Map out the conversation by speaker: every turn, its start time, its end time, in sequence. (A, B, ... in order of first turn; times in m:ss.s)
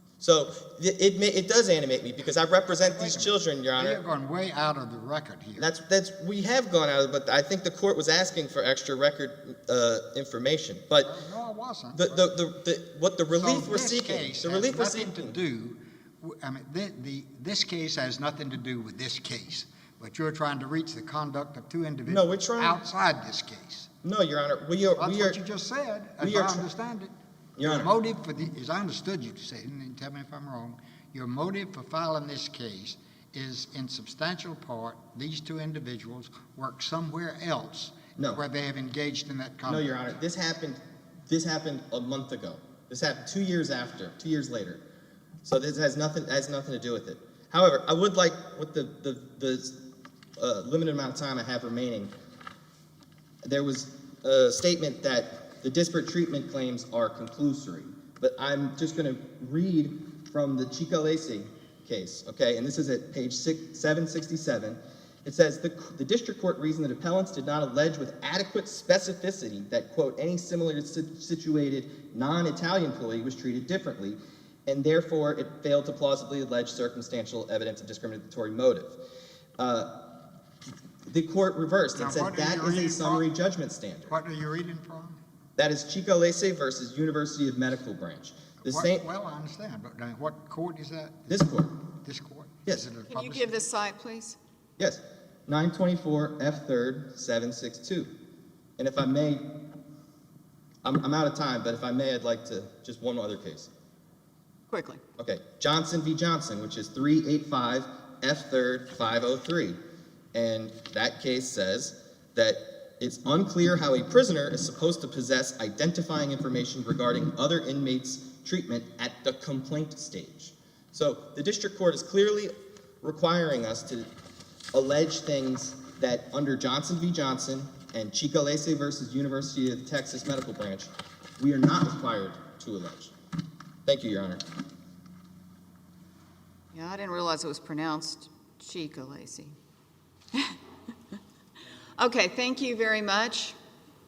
0:00.2-0:04.0 A
0:02.8-0:05.7 B
0:05.6-0:11.1 A
0:11.0-0:12.3 B
0:11.9-0:15.4 A
0:13.3-0:23.9 B
0:22.1-0:22.8 A
0:24.0-0:25.4 A
0:25.0-0:40.1 B
0:26.2-0:26.6 A
0:27.6-0:27.9 A
0:38.2-0:38.4 A
0:39.6-0:44.8 A
0:45.4-0:49.8 A
0:50.4-0:52.1 A
0:53.4-1:19.0 A
1:19.6-1:20.0 A
1:21.1-1:24.1 A
1:21.9-1:23.2 B
1:24.1-1:25.2 B
1:25.6-1:29.0 A
1:28.6-1:31.5 B
1:31.3-1:31.8 A
1:32.0-1:33.6 B
1:33.1-1:34.4 C
1:34.8-1:38.1 A
1:38.8-1:39.5 A
1:40.8-1:43.7 A
1:44.7-1:45.0 C
1:45.2-1:49.8 A
1:50.3-2:04.1 A
2:04.7-2:13.1 A
2:13.8-2:14.4 A
2:16.7-2:19.6 C
2:22.0-2:23.6 C